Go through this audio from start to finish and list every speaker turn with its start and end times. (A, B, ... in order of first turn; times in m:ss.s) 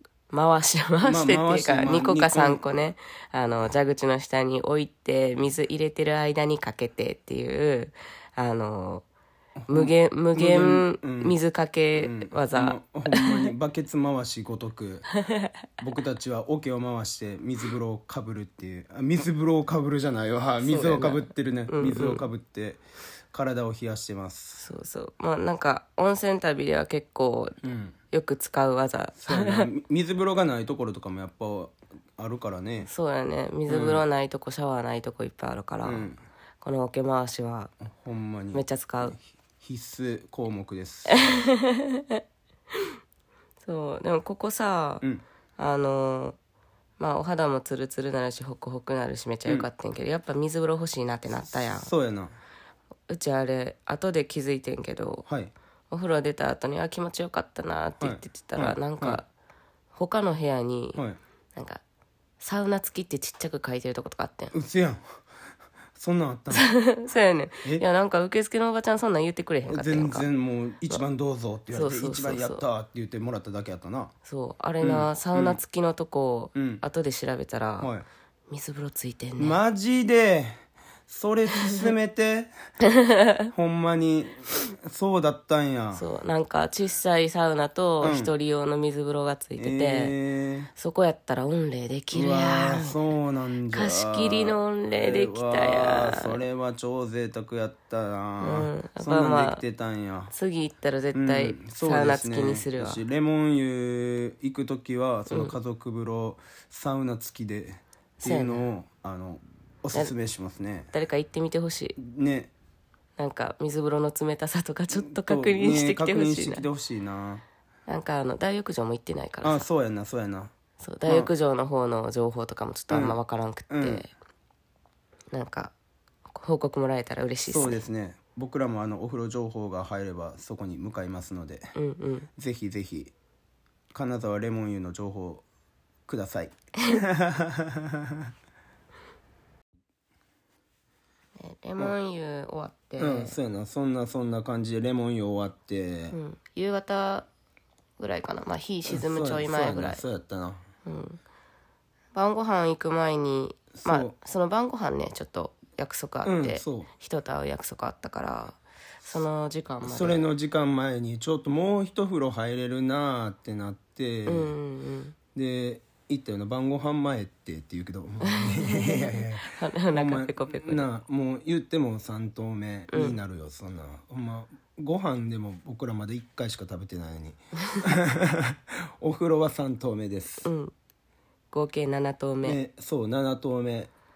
0:00.3-0:09.1 A
0:01.0-0:02.6 B
0:09.6-0:11.4 B
0:09.7-0:13.5 A
0:12.0-0:15.1 B
0:15.1-0:15.7 A
0:15.8-0:24.6 B
0:20.6-0:22.2 A
0:24.6-0:27.6 A
0:27.6-0:28.0 B
0:28.1-0:29.7 A
0:29.2-0:32.9 B
0:32.9-0:37.7 A
0:33.7-0:34.0 B
0:35.8-0:36.2 B
0:37.8-0:41.5 B
0:38.5-0:39.2 A
0:41.1-0:42.2 A
0:43.6-0:45.0 A
0:45.6-0:46.4 A
0:47.0-0:51.9 A
0:51.4-0:52.4 B
0:53.1-0:55.3 A
0:55.3-0:55.5 B
0:55.9-0:59.3 A
0:58.0-0:59.2 B
0:59.9-1:01.0 A
1:01.6-1:01.8 A
1:02.4-1:04.5 A
1:04.5-1:05.2 B
1:05.9-1:06.7 B
1:06.5-1:10.3 A
1:09.7-1:14.1 B
1:11.7-1:12.6 A
1:14.2-1:17.9 A
1:14.8-1:15.6 B
1:16.6-1:16.8 B
1:17.8-1:18.1 B
1:18.5-1:19.6 A
1:19.4-1:22.5 B
1:22.8-1:23.5 A
1:23.5-1:26.0 B
1:25.9-1:30.2 A
1:28.0-1:28.3 B
1:29.6-1:30.7 B
1:30.8-1:33.0 A
1:32.1-1:40.3 B
1:33.7-1:36.4 A
1:38.4-1:39.6 A
1:40.3-1:43.0 A
1:41.1-1:50.9 B
1:45.3-1:45.6 A
1:48.2-1:48.7 A
1:50.9-1:52.0 A
1:52.0-1:52.5 B
1:53.2-1:56.6 A
1:54.9-1:57.4 B
1:57.9-1:59.6 A
1:59.4-2:00.5 B
2:00.8-2:04.1 A
2:02.9-2:03.2 B
2:03.7-2:04.0 B
2:05.3-2:05.7 A
2:06.3-2:07.8 A
2:07.5-2:11.7 B
2:11.8-2:12.3 A
2:12.4-2:13.1 B
2:13.9-2:15.4 B
2:16.1-2:18.3 B
2:21.4-2:23.4 A
2:23.0-2:26.2 B
2:26.1-2:27.3 A
2:28.0-2:30.0 A
2:28.9-2:30.6 B
2:30.8-2:31.2 A
2:32.1-2:40.2 A
2:33.8-2:34.1 B
2:36.2-2:36.9 B
2:39.8-2:44.6 B
2:44.3-2:45.2 A
2:45.3-3:00.5 B
2:48.2-2:50.9 A
2:52.9-2:53.2 A
3:00.4-3:00.7 A
3:01.5-3:02.6 A
3:02.4-3:03.9 B